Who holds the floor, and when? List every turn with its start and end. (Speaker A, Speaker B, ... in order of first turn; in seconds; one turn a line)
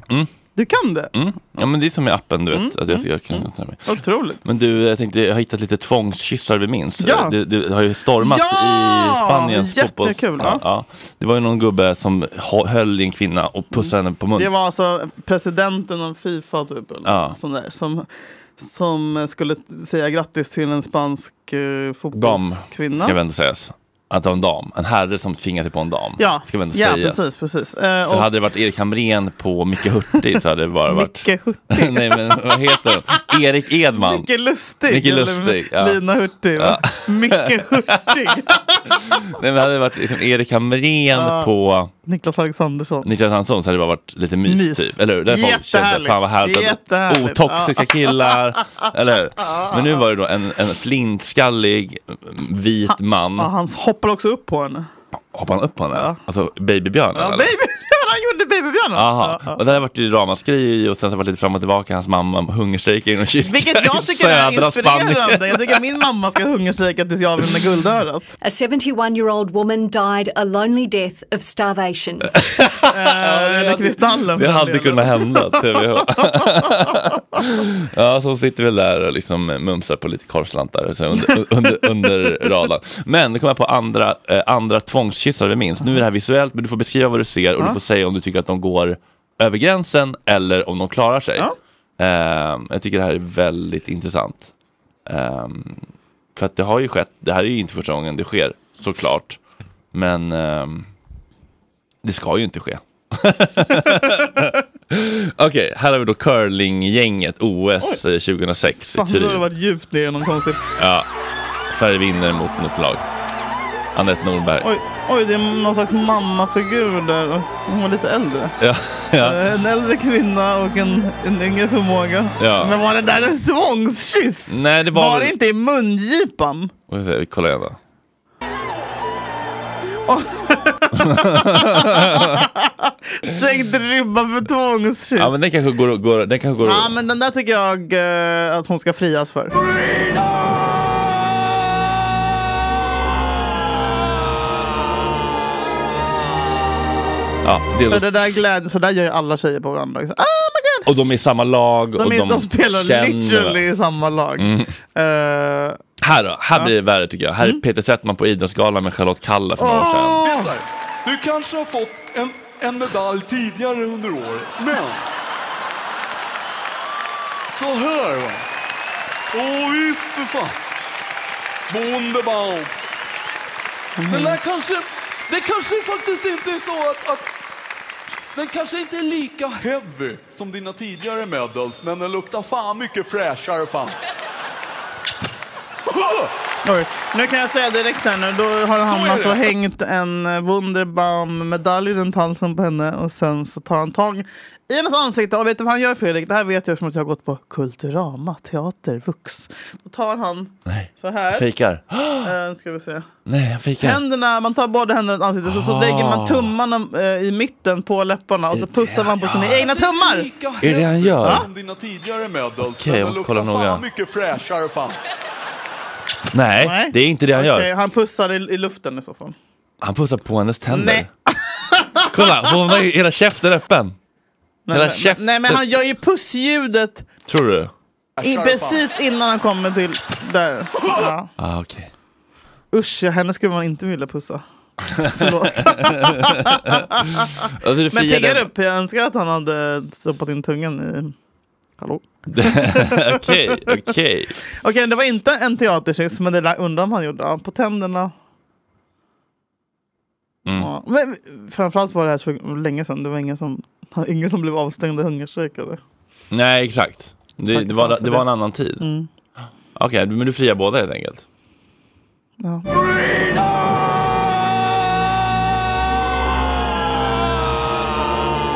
Speaker A: 0.6-1.1
Speaker B: 1.1-14.5
Speaker A: 2.5-4.4
Speaker A: 7.0-7.3
Speaker A: 8.2-10.6
Speaker A: 13.7-23.2
Speaker B: 17.0-17.4
Speaker B: 22.1-27.3
Speaker A: 26.2-28.3
Speaker B: 28.1-34.3
Speaker A: 30.9-33.2
Speaker A: 33.9-39.0
Speaker B: 34.9-36.0
Speaker B: 36.5-38.0
Speaker B: 38.9-41.9
Speaker A: 41.1-41.5
Speaker A: 42.0-43.1
Speaker B: 43.0-53.5
Speaker A: 44.5-48.3
Speaker A: 49.5-49.8
Speaker A: 52.9-54.9
Speaker B: 55.3-57.5
Speaker A: 55.9-56.2
Speaker A: 57.1-59.7
Speaker B: 58.9-65.8
Speaker A: 63.4-68.3
Speaker C: 68.4-72.3
Speaker B: 72.5-94.5
Speaker A: 72.9-75.3
Speaker A: 82.0-82.4
Speaker B: 95.0-95.8
Speaker B: 96.3-99.4
Speaker B: 99.9-100.9
Speaker B: 102.0-109.4
Speaker A: 108.9-110.6
Speaker B: 110.8-111.1
Speaker B: 111.7-113.0
Speaker B: 113.9-114.7
Speaker A: 114.6-118.5
Speaker B: 118.6-119.5
Speaker A: 119.2-126.7
Speaker B: 122.4-122.8
Speaker B: 124.5-125.3
Speaker B: 126.9-127.8
Speaker A: 130.1-135.4
Speaker B: 131.0-132.3
Speaker B: 135.2-137.0
Speaker A: 136.6-139.6
Speaker B: 147.4-148.4
Speaker A: 147.9-150.9
Speaker B: 150.8-153.6
Speaker A: 152.0-155.8
Speaker B: 154.4-154.7
Speaker B: 156.0-160.2
Speaker A: 159.6-160.5
Speaker D: 160.2-165.0
Speaker D: 167.5-168.4
Speaker D: 169.3-170.6
Speaker D: 171.7-172.7
Speaker A: 174.0-174.4
Speaker D: 174.1-177.3
Speaker D: 178.3-183.9
Speaker D: 185.9-186.3
Speaker A: 186.6-201.4
Speaker D: 188.8-189.5
Speaker B: 200.7-202.3
Speaker A: 202.2-203.1
Speaker B: 203.2-204.0
Speaker A: 203.8-210.3
Speaker B: 205.4-206.5
Speaker B: 208.5-209.4
Speaker D: 209.2-215.0
Speaker B: 210.6-211.5
Speaker B: 212.7-213.8
Speaker B: 216.3-217.7
Speaker A: 216.6-219.3
Speaker B: 219.8-221.1
Speaker A: 220.7-222.2
Speaker B: 222.1-223.9
Speaker A: 224.7-227.1
Speaker B: 224.7-225.8
Speaker B: 227.3-227.7
Speaker D: 228.2-228.9
Speaker A: 228.2-231.3
Speaker B: 231.4-231.9
Speaker A: 232.7-234.4
Speaker B: 234.9-237.0
Speaker A: 235.1-237.3
Speaker B: 237.6-238.5
Speaker A: 237.9-241.1
Speaker A: 241.8-243.6
Speaker B: 242.3-244.3
Speaker A: 244.6-248.1
Speaker A: 250.5-255.8
Speaker B: 256.3-258.9
Speaker A: 257.5-258.3
Speaker A: 258.8-259.1
Speaker B: 259.8-261.2
Speaker A: 262.4-262.7